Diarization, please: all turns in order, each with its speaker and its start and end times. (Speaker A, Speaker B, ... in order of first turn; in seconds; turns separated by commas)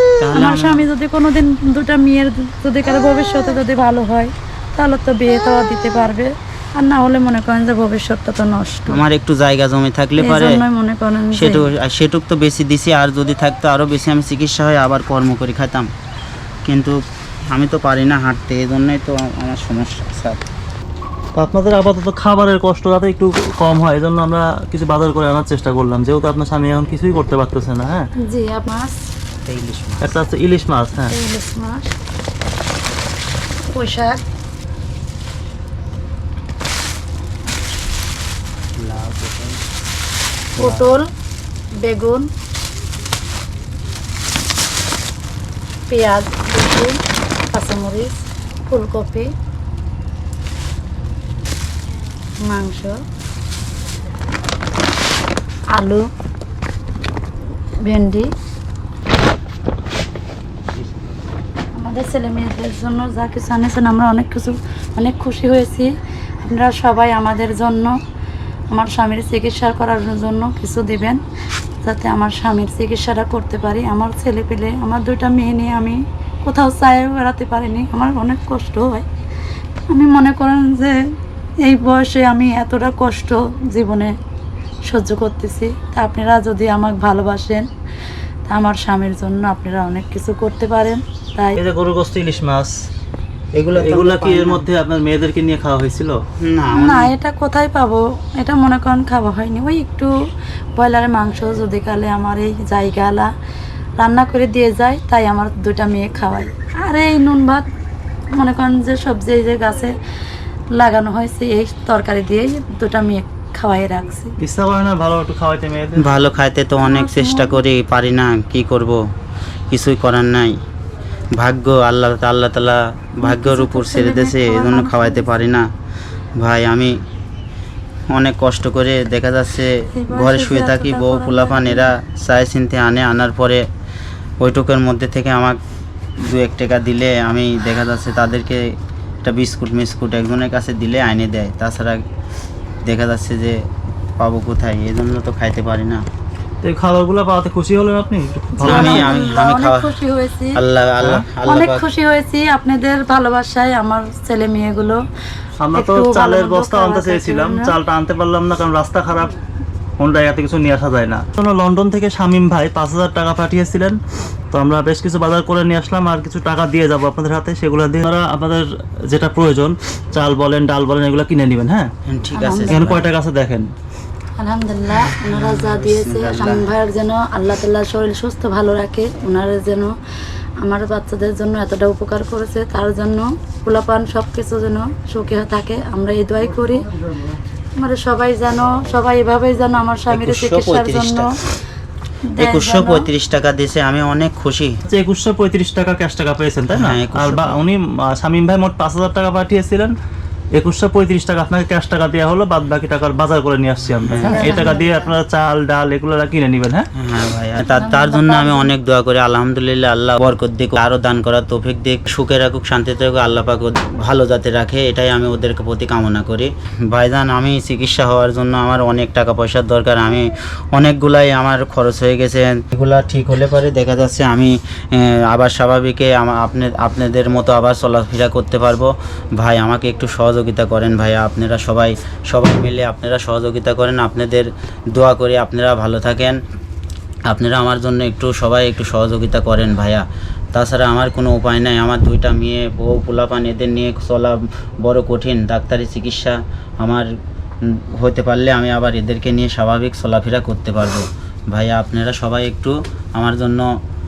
Speaker A: 0.2-0.8, Speaker B: 0.3-9.0, Speaker A: 8.9-10.6, Speaker B: 10.2-11.7, Speaker A: 11.3-15.9, Speaker A: 16.6-17.0, Speaker A: 17.5-20.4, Speaker C: 21.3-28.1, Speaker B: 28.2-29.0, Speaker A: 29.4-30.2, Speaker C: 30.0-31.1, Speaker B: 31.1-31.9, Speaker B: 33.7-34.2, Speaker A: 38.8-39.6, Speaker A: 40.5-40.9, Speaker B: 40.6-41.1, Speaker B: 41.8-42.3, Speaker B: 45.9-47.0, Speaker B: 47.5-49.3, Speaker B: 52.4-53.0, Speaker B: 55.7-56.1, Speaker B: 57.8-58.3, Speaker B: 61.7-68.0, Speaker B: 68.7-71.2, Speaker B: 71.8-79.1, Speaker B: 79.9-81.0, Speaker B: 81.6-84.2, Speaker B: 84.8-87.7, Speaker B: 88.5-91.6, Speaker C: 91.6-92.7, Speaker A: 93.5-94.6, Speaker C: 93.7-96.2, Speaker A: 96.4-97.1, Speaker B: 96.7-100.1, Speaker B: 100.7-103.3, Speaker B: 104.0-107.7, Speaker B: 108.3-110.0, Speaker B: 110.7-114.3, Speaker C: 114.4-116.1, Speaker A: 116.0-119.0, Speaker B: 116.8-117.6, Speaker A: 119.7-120.6, Speaker A: 121.3-125.6, Speaker B: 123.2-125.5, Speaker A: 126.4-126.9, Speaker A: 128.1-133.6, Speaker B: 129.8-131.9, Speaker A: 134.4-135.6, Speaker A: 136.2-138.7, Speaker A: 139.2-142.0, Speaker A: 142.8-143.6, Speaker A: 144.2-146.0, Speaker C: 146.6-149.1, Speaker B: 148.6-150.6, Speaker A: 148.6-149.9, Speaker A: 150.5-151.8, Speaker B: 151.4-155.0, Speaker C: 155.6-159.3, Speaker B: 155.7-157.7, Speaker C: 160.0-164.0, Speaker C: 164.5-171.9, Speaker A: 172.1-173.1, Speaker B: 172.3-172.9, Speaker C: 172.7-173.7, Speaker B: 174.4-179.9, Speaker A: 174.9-176.7, Speaker B: 180.6-186.9, Speaker B: 187.8-191.4, Speaker A: 190.1-191.3, Speaker B: 192.3-193.1, Speaker A: 192.4-194.8, Speaker C: 194.9-199.9, Speaker A: 196.7-197.6, Speaker C: 200.5-206.9, Speaker A: 204.1-204.7, Speaker B: 204.1-205.1, Speaker A: 206.9-236.4, Speaker B: 207.6-208.7, Speaker A: 237.3-247.1, Speaker A: 247.6-253.7